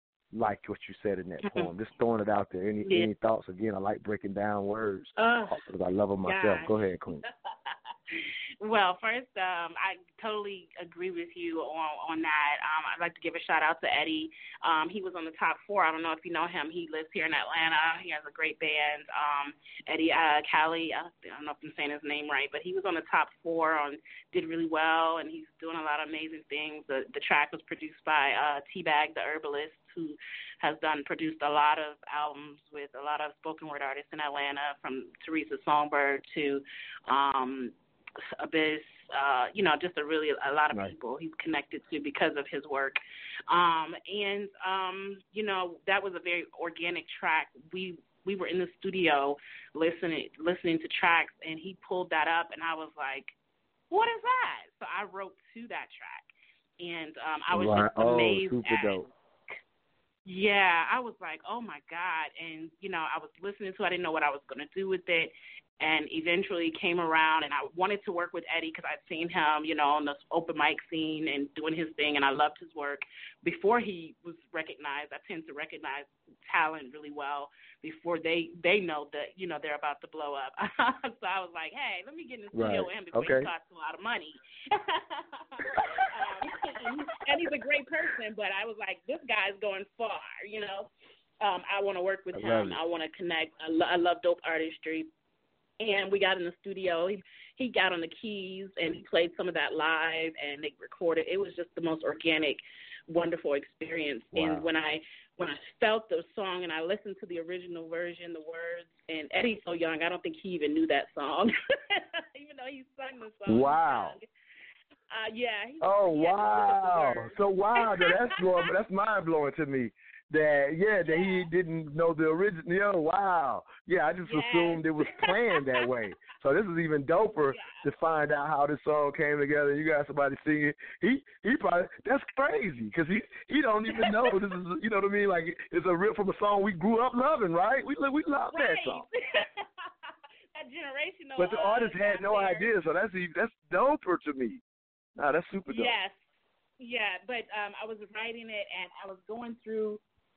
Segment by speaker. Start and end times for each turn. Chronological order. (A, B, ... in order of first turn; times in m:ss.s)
0:00.3-0:07.3 A
0:02.8-0:03.1 B
0:05.2-0:05.6 B
0:06.2-0:06.8 B
0:07.3-0:37.7 B
0:38.4-0:53.4 B
0:53.9-0:59.1 B
0:57.5-0:59.1 A
1:00.2-1:35.1 B
1:22.5-1:23.5 A
1:32.3-1:32.8 A
1:35.8-1:54.3 B
1:44.3-1:44.7 A
1:53.4-1:54.2 A
1:55.1-1:58.4 B
1:55.8-2:19.1 A
2:01.0-2:01.5 B
2:04.3-2:05.9 B
2:07.5-2:07.8 B
2:13.9-2:14.3 B
2:18.5-2:19.8 B
2:20.5-2:22.7 B
2:21.4-2:24.6 A
2:25.2-2:25.9 A
2:25.7-2:26.2 B
2:26.8-2:30.0 B